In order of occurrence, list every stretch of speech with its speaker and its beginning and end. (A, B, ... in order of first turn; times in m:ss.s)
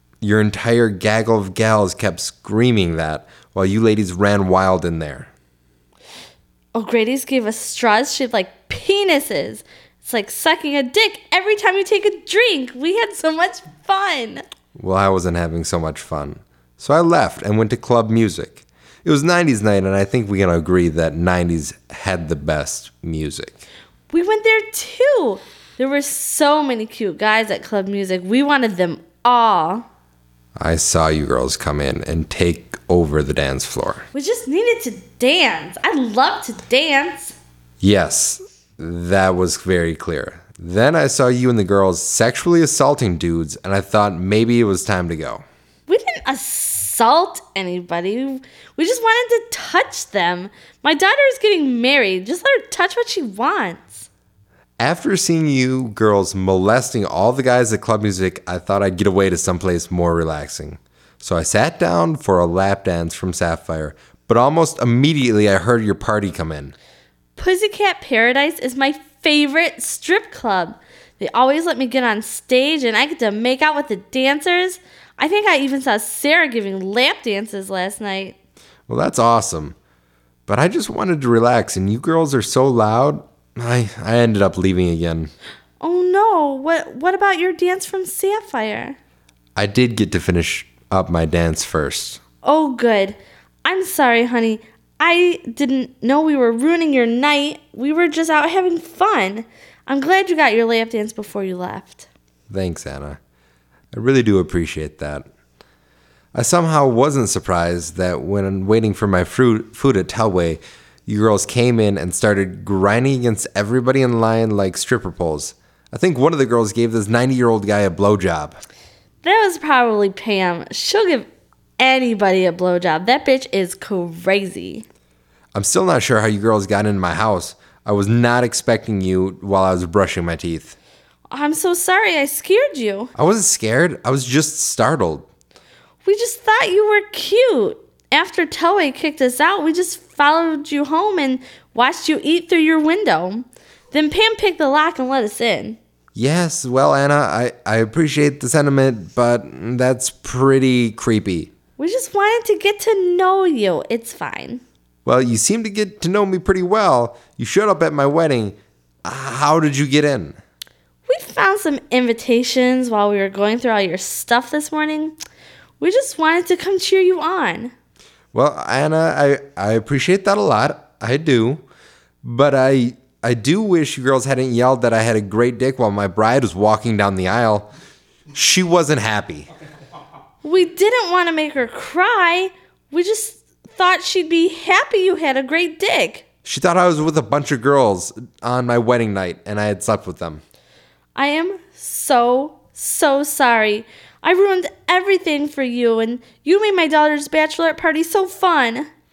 0:00.2-0:05.3 A
0:06.7-0:14.4 B
0:14.8-0:23.6 A
0:24.1-0:29.8 B
0:30.6-0:34.0 A
0:34.1-0:37.4 B
0:37.8-0:45.4 A
0:45.9-0:54.1 B
0:54.8-1:06.8 A
1:07.4-1:18.4 B
1:18.9-1:19.8 A
1:20.5-1:25.3 A
1:25.8-1:29.0 B
1:29.6-1:32.2 A
1:32.4-1:42.1 B
1:42.5-1:43.2 A
1:43.9-1:45.3 A
1:46.3-1:58.6 A
1:59.2-2:01.3 B
2:01.8-2:04.8 B
2:05.5-2:10.8 A
2:11.3-2:13.1 B
2:13.2-2:15.3 A
2:16.0-2:25.8 B
2:26.2-2:31.5 A
2:31.8-2:34.6 B
2:35.0-2:40.4 A
2:41.1-2:45.1 B
2:45.8-2:47.7 B
2:48.3-2:51.6 A
2:52.2-2:57.7 A
2:58.3-2:59.5 A
3:00.4-3:06.3 B
3:06.4-3:10.4 A
3:11.2-3:18.9 B